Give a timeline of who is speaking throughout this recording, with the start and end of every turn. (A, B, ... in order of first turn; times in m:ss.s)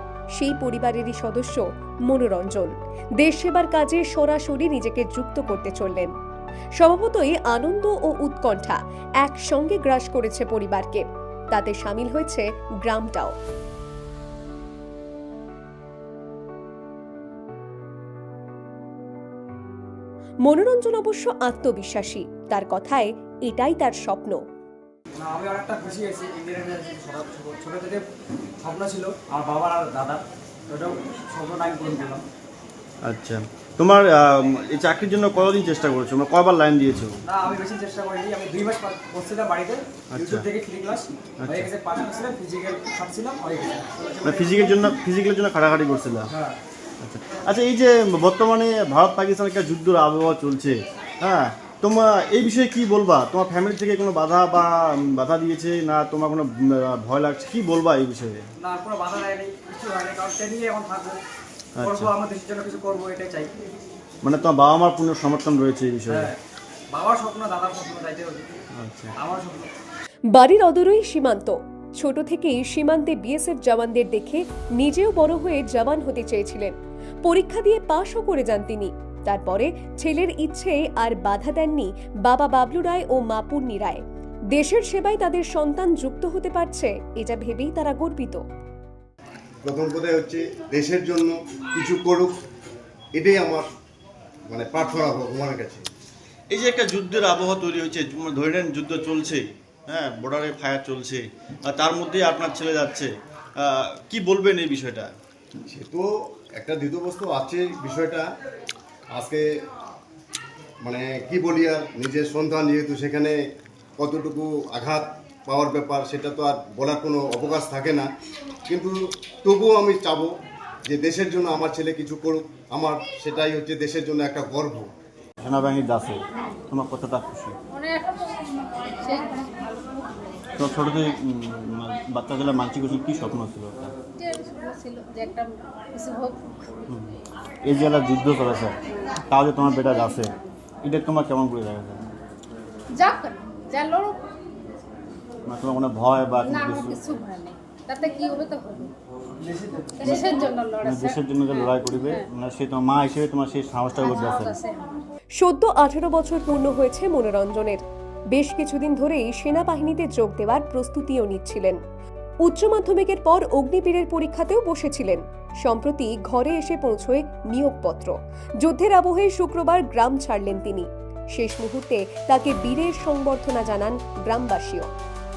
0:00.4-0:06.1 A
0:06.8-0:13.3 A
0:20.4-0:24.4 A
0:25.2-0:28.1 B
0:28.6-0:32.3 B
0:33.0-0:37.2 C
0:37.2-0:44.8 B
0:40.1-0:40.5 C
0:41.4-0:41.7 C
0:44.2-0:46.3 C
0:46.3-0:46.6 B
0:47.0-0:58.4 C
0:58.6-1:01.2 B
1:01.8-1:02.1 C
1:01.8-1:03.5 B
1:04.2-1:06.3 C
1:06.1-1:06.4 B
1:06.9-1:08.5 B
1:08.8-1:09.1 C
1:09.2-1:09.7 B
1:10.3-1:16.7 A
1:17.2-1:28.4 A
1:29.6-1:32.4 D
1:33.2-1:33.7 D
1:34.5-1:35.8 D
1:36.5-1:45.1 C
1:45.6-1:48.3 D
1:49.1-1:49.5 D
1:50.8-1:53.4 D
1:54.0-1:58.1 D
1:58.7-2:00.3 D
2:00.9-2:04.9 D
2:05.4-2:07.6 C
2:07.7-2:09.7 E
2:10.6-2:13.9 C
2:14.2-2:16.7 E
2:16.9-2:22.0 C
2:22.9-2:24.3 E
2:25.5-2:27.0 C
2:26.4-2:28.9 E
2:29.4-2:30.1 B
2:30.0-2:32.3 E
2:30.8-2:34.5 C
2:34.0-2:35.0 E
2:35.4-2:41.8 A
2:42.4-2:54.9 A